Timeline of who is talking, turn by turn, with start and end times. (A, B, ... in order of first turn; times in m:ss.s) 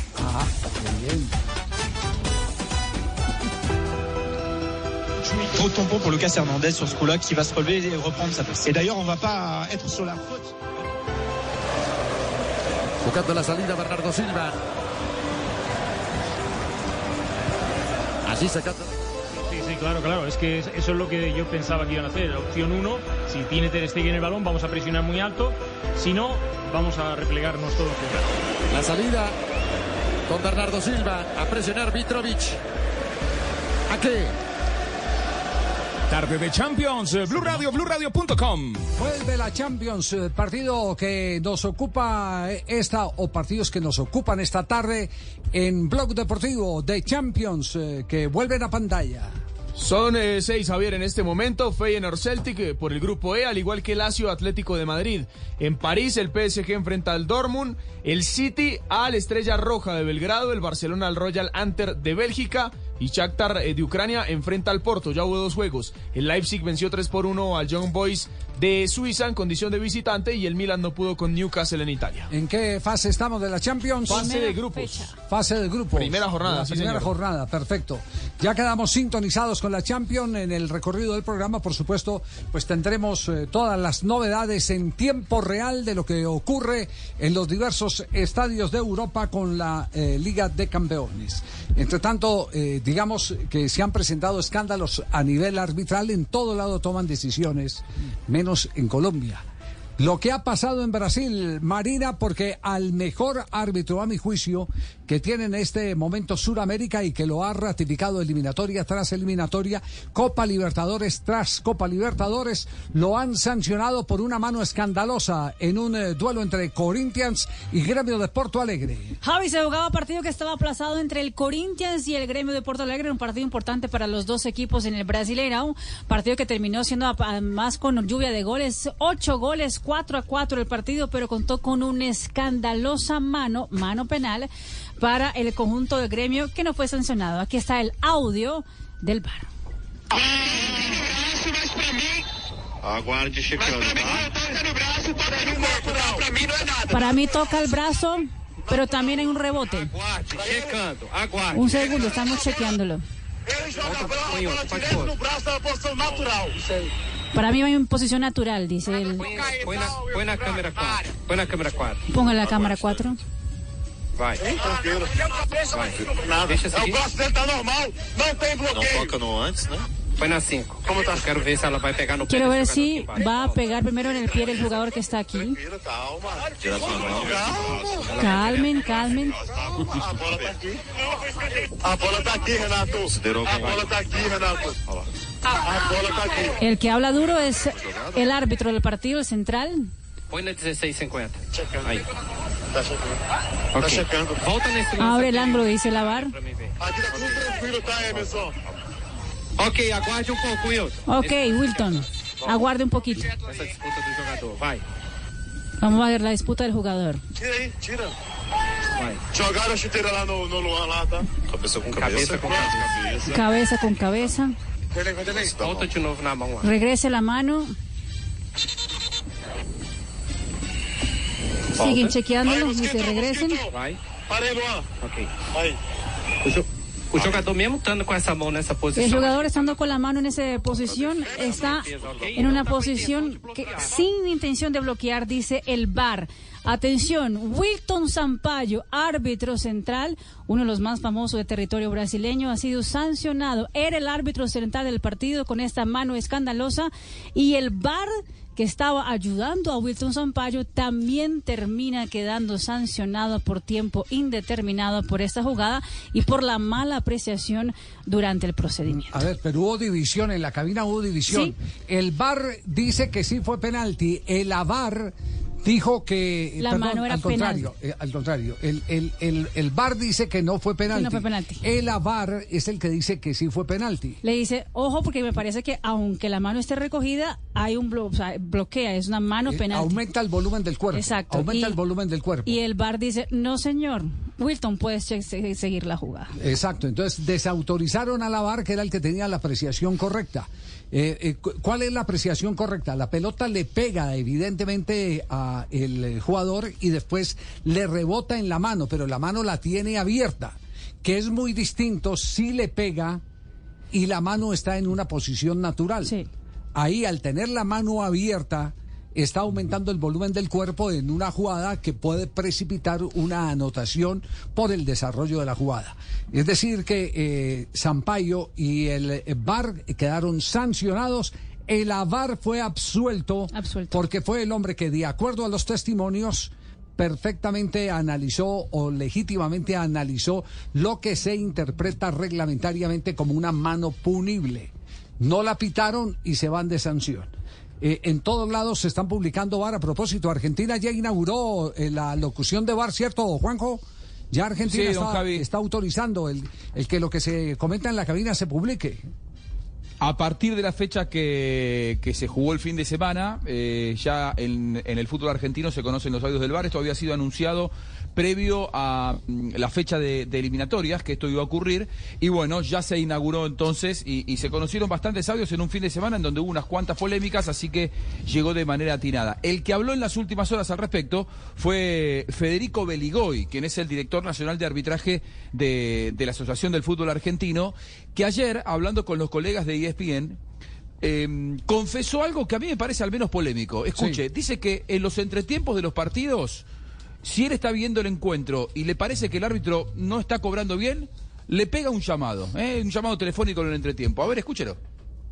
0:00.2-0:01.3 A
0:05.3-0:10.5 B
0:13.0-0:14.6 C
0:18.3-0:18.9 C
0:19.5-0:28.2 D
0:28.7-0:29.4 C
0:30.3-0:32.6 C
0:33.9-0:34.4 C
0:36.1-0:38.9 E
0:39.0-0:49.4 A
0:49.8-1:12.3 F
1:12.3-1:14.3 A
1:14.1-1:15.1 F
1:14.1-1:15.1 G
1:15.3-1:39.4 A
1:15.9-1:17.1 F
1:40.0-1:59.2 A
1:59.2-2:14.5 G
2:15.0-2:19.5 G
2:20.1-2:22.2 H
2:22.9-2:24.2 I
2:23.6-2:27.0 H
2:26.9-2:29.9 G
2:30.0-2:30.8 H
2:30.4-2:31.6 I
2:31.5-2:33.0 G
2:33.5-2:36.6 H
2:33.9-2:35.1 I
2:37.3-2:39.3 G
2:39.2-2:42.0 I
2:39.5-2:40.4 H
2:42.1-2:43.2 G
2:44.2-2:44.4 I
2:44.4-2:49.2 H
2:46.5-2:47.0 I
2:48.8-2:53.2 I
2:50.8-2:51.4 H
2:52.3-2:55.6 G
2:55.6-2:58.0 H
2:56.9-2:57.3 I
2:58.2-2:59.4 G
2:59.5-3:01.2 H
3:01.8-3:05.0 H
3:05.6-3:06.6 H
3:06.6-3:09.9 G
3:10.3-3:12.0 I
3:11.6-3:12.0 H
3:12.7-3:13.1 H
3:13.8-3:14.6 H
3:13.8-3:15.7 I
3:15.0-3:16.3 G
3:16.2-3:17.3 I
3:16.8-3:18.5 H
3:19.6-3:21.0 I
3:21.1-3:23.3 G
3:23.4-3:24.8 I
3:25.8-3:27.2 G
3:27.4-3:28.1 H
3:29.3-3:31.3 H
3:31.9-3:32.8 I
3:32.0-3:33.4 H
3:33.3-3:34.6 G
3:35.0-3:35.9 H
3:35.4-3:36.7 I
3:36.6-3:37.7 G
3:41.8-3:43.6 G
3:42.4-3:43.7 H
3:44.3-3:44.9 H
3:47.1-3:49.6 I
3:49.0-4:19.2 G
3:51.3-3:51.6 H
3:51.5-3:52.8 I
4:18.9-4:34.2 A
4:26.6-4:27.7 G
4:30.9-4:31.6 G
4:34.2-4:40.0 G
4:39.5-4:42.6 A
4:40.9-4:41.8 G
4:42.5-4:46.3 G
4:46.4-5:03.2 A
5:03.9-5:06.1 A
5:06.7-5:49.1 A
5:23.5-5:24.0 G
5:44.7-5:45.4 J
5:50.0-6:20.4 J
6:21.0-6:26.6 J
6:27.2-6:34.8 J